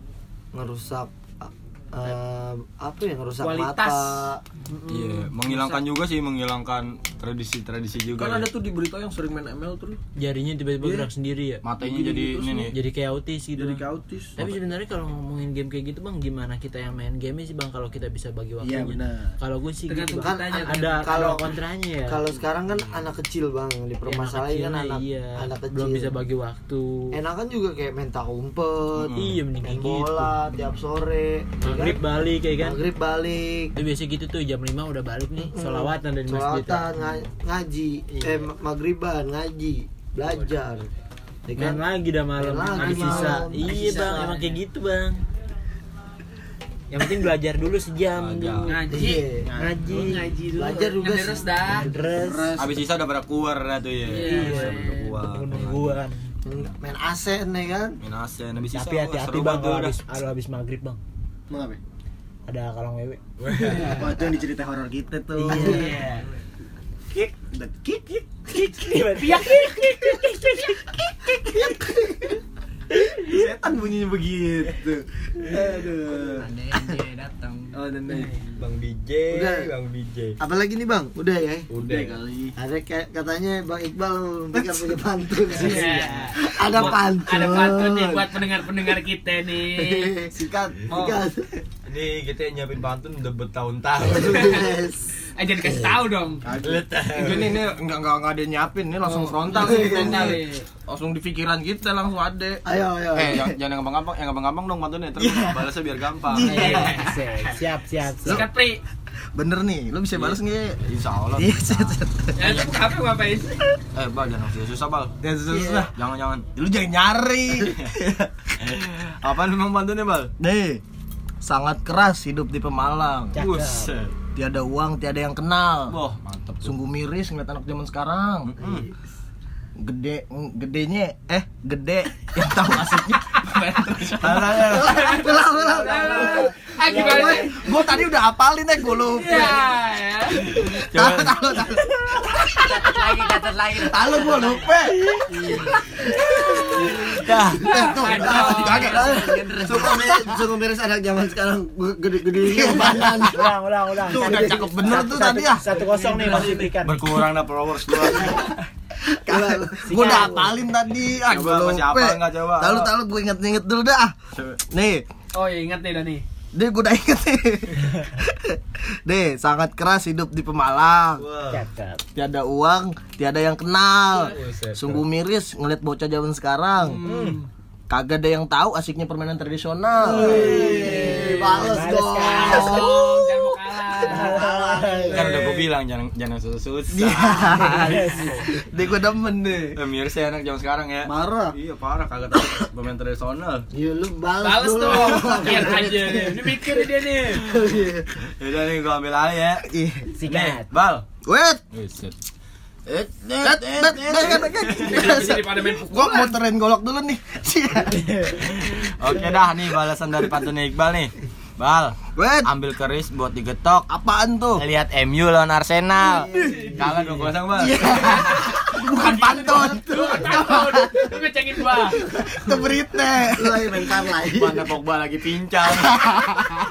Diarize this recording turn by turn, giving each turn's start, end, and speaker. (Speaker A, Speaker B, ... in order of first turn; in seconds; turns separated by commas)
Speaker A: 0.5-4.4, Speaker B: 3.4-4.3, Speaker C: 4.7-5.8, Speaker D: 4.9-8.5, Speaker E: 8.1-10.0, Speaker C: 10.2-11.6, Speaker E: 10.8-11.1, Speaker D: 11.6-12.8, Speaker E: 11.8-12.7, Speaker C: 12.7-13.8, Speaker E: 13.6-14.4, Speaker C: 14.4-22.2, Speaker D: 14.4-14.6, Speaker E: 18.6-19.4, Speaker B: 19.9-21.2, Speaker A: 20.1-21.5, Speaker A: 22.1-26.1, Speaker C: 24.1-27.2, Speaker A: 27.1-33.8, Speaker C: 29.1-30.4, Speaker C: 31.6-32.8, Speaker C: 33.8-37.0, Speaker A: 35.4-40.9, Speaker C: 38.1-38.4, Speaker A: 41.5-41.8, Speaker C: 41.6-45.2, Speaker A: 42.4-44.5, Speaker B: 42.7-44.5, Speaker C: 46.9-50.4, Speaker D: 48.1-48.8, Speaker B: 48.7-49.3, Speaker A: 48.9-49.5, Speaker E: 49.1-49.8, Speaker B: 49.9-51.9, Speaker A: 50.5-51.6, Speaker C: 51.7-52.6, Speaker E: 51.7-52.7, Speaker D: 52.6-56.0, Speaker B: 54.1-55.1, Speaker C: 54.2-56.2, Speaker A: 56.5-58.0, Speaker D: 58.0-60.0, Speaker C: 58.7-61.0, Speaker E: 61.5-61.8, Speaker C: 62.5-64.0, Speaker D: 63.4-64.0, Speaker E: 63.8-66.0, Speaker C: 65.4-66.3, Speaker F: 65.6-66.4, Speaker E: 67.5-68.3, Speaker C: 68.5-71.8, Speaker E: 71.4-71.7, Speaker C: 72.9-73.3, Speaker E: 73.2-76.5, Speaker F: 76.2-77.8, Speaker E: 77.7-78.4, Speaker D: 78.6-80.4, Speaker A: 79.3-79.7, Speaker A: 80.4-81.7, Speaker D: 81.7-82.2, Speaker E: 81.8-82.6, Speaker A: 82.6-88.2, Speaker E: 84.5-84.9, Speaker B: 85.5-90.2, Speaker E: 85.5-86.2, Speaker D: 86.7-87.0, Speaker A: 89.7-91.6, Speaker E: 90.3-91.0, Speaker D: 91.9-94.6, Speaker A: 94.0-95.2, Speaker B: 94.3-94.7, Speaker B: 95.4-96.4, Speaker E: 96.4-102.6, Speaker D: 96.6-97.6, Speaker A: 99.2-100.4, Speaker B: 99.5-100.7, Speaker A: 102.6-103.6, Speaker D: 103.1-106.9, Speaker E: 105.2-105.6, Speaker E: 106.3-107.2, Speaker C: 106.4-108.5, Speaker B: 106.6-106.9, Speaker B: 108.2-108.8, Speaker E: 109.3-110.8, Speaker D: 110.2-112.6, Speaker E: 111.3-112.6, Speaker B: 112.4-113.5, Speaker D: 113.9-116.5, Speaker E: 115.2-115.9, Speaker E: 116.5-118.3, Speaker D: 117.6-117.9, Speaker D: 118.6-120.3, Speaker E: 120.4-120.8, Speaker E: 121.4-123.4, Speaker C: 123.3-124.0, Speaker D: 123.3-124.1, Speaker E: 124.3-126.0, Speaker D: 125.9-126.8, Speaker E: 126.6-128.5, Speaker D: 128.4-128.9, Speaker A: 128.6-128.9, Speaker E: 129.8-139.7, Speaker D: 134.2-135.0, Speaker A: 134.7-137.4, Speaker B: 134.8-137.8, Speaker F: 135.4-136.4, Speaker B: 139.1-140.4, Speaker D: 140.3-141.5, Speaker E: 140.6-145.2, Speaker F: 142.5-144.7, Speaker F: 145.3-146.2, Speaker E: 146.1-147.2, Speaker A: 146.6-146.9, Speaker F: 146.8-147.1, Speaker D: 147.1-147.7, Speaker A: 147.6-153.5, Speaker B: 147.6-149.3, Speaker E: 147.7-150.2, Speaker F: 148.1-150.2, Speaker E: 152.4-153.3, Speaker C: 152.7-157.3, Speaker E: 154.0-155.7, Speaker A: 154.1-155.4, Speaker B: 155.7-156.7, Speaker F: 155.9-156.7, Speaker D: 156.3-158.5, Speaker E: 159.3-164.1, Speaker A: 159.3-159.6, Speaker C: 159.7-160.6, Speaker D: 161.2-162.9, Speaker D: 164.3-164.6, Speaker E: 164.7-165.1, Speaker B: 165.3-166.2, Speaker E: 166.5-171.2, Speaker D: 171.2-171.7, Speaker C: 171.5-172.0, Speaker E: 172.2-177.0, Speaker D: 174.2-175.0, Speaker D: 176.9-177.4, Speaker C: 177.0-177.4, Speaker E: 177.9-183.1, Speaker C: 180.1-183.2, Speaker A: 180.1-181.5, Speaker D: 180.1-181.4, Speaker B: 180.8-181.6, Speaker B: 182.2-184.4, Speaker C: 184.0-185.4, Speaker E: 184.0-185.3, Speaker A: 184.3-185.4, Speaker D: 185.1-188.2, Speaker E: 186.9-189.8, Speaker C: 187.7-188.3, Speaker D: 189.8-193.7, Speaker E: 191.1-191.6, Speaker A: 193.7-196.6, Speaker B: 194.4-197.6, Speaker E: 194.9-196.4, Speaker A: 197.2-198.1, Speaker D: 198.4-199.7, Speaker E: 199.7-200.1, Speaker C: 200.1-200.7, Speaker D: 200.2-201.1, Speaker E: 201.2-201.6, Speaker D: 201.7-202.2, Speaker D: 202.9-205.2, Speaker E: 203.3-208.5, Speaker B: 204.8-206.3, Speaker D: 208.3-213.9, Speaker E: 212.2-212.5, Speaker E: 213.9-214.7, Speaker D: 214.6-217.9, Speaker E: 216.0-221.1, Speaker F: 216.3-216.5, Speaker A: 217.7-218.5, Speaker B: 217.8-222.1, Speaker E: 221.9-223.8, Speaker A: 223.3-224.7, Speaker D: 224.3-226.0